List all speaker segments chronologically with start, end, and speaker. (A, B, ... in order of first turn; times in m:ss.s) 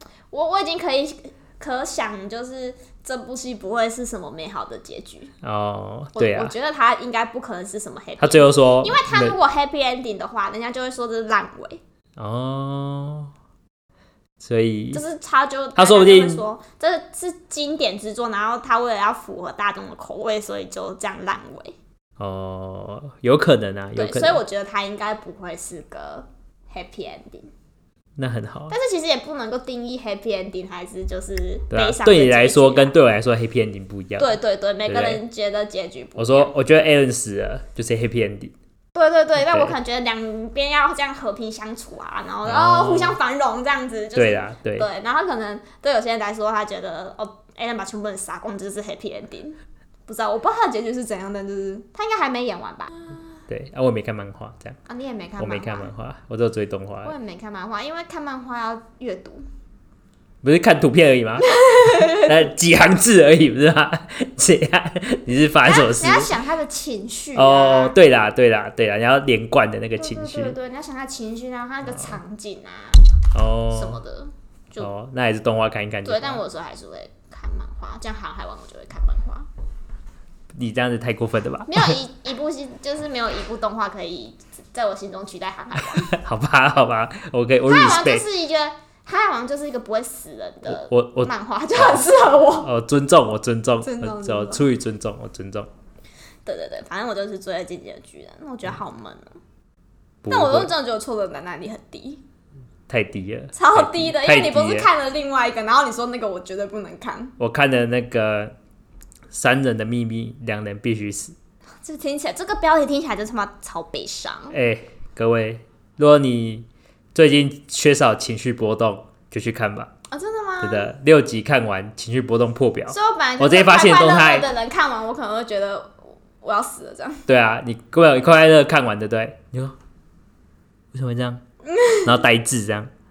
0:00.3-0:05.3 A
0:05.4-0:06.5 B
0:06.1-0:11.8 A
0:08.2-0:09.4 B
0:12.2-0:13.3 B
0:14.4-0:15.0 B
0:14.9-0:21.8 A
0:15.8-0:16.4 B
0:22.2-0:24.4 B
0:24.0-0:27.5 A
0:28.2-0:28.7 B
0:28.7-0:32.9 A
0:31.7-0:35.2 B
0:34.2-0:36.5 A
0:36.2-0:38.5 B
0:38.9-0:53.2 A
0:39.4-0:39.7 B
0:42.4-0:43.2 B
0:44.1-0:44.9 B
0:53.5-0:54.8 B
0:54.8-0:55.9 A
0:55.4-0:57.1 B
0:57.0-0:59.4 A
1:00.4-1:06.4 B
1:01.4-1:02.3 A
1:05.6-1:08.0 A
1:07.3-1:10.5 B
1:10.0-1:13.1 A
1:11.9-1:12.2 B
1:13.3-1:14.0 B
1:13.7-1:14.9 A
1:14.8-1:16.4 B
1:16.0-1:19.5 A
1:20.5-1:22.0 B
1:21.7-1:26.1 A
1:25.9-1:28.2 B
1:27.6-1:32.7 A
1:30.6-1:35.7 B
1:33.8-1:34.6 A
1:36.4-1:39.4 A
1:40.2-1:40.7 B
1:40.3-1:42.2 A
1:42.9-1:44.9 B
1:43.5-1:47.3 A
1:47.4-1:48.5 B
1:49.3-1:51.3 B
1:51.8-1:54.6 A
1:54.5-1:59.9 B
2:00.1-2:00.9 A
2:00.6-2:04.5 B
2:02.9-2:07.2 A
2:07.3-2:09.8 B
2:10.9-2:11.4 B
2:11.6-2:12.2 A
2:12.0-2:12.9 B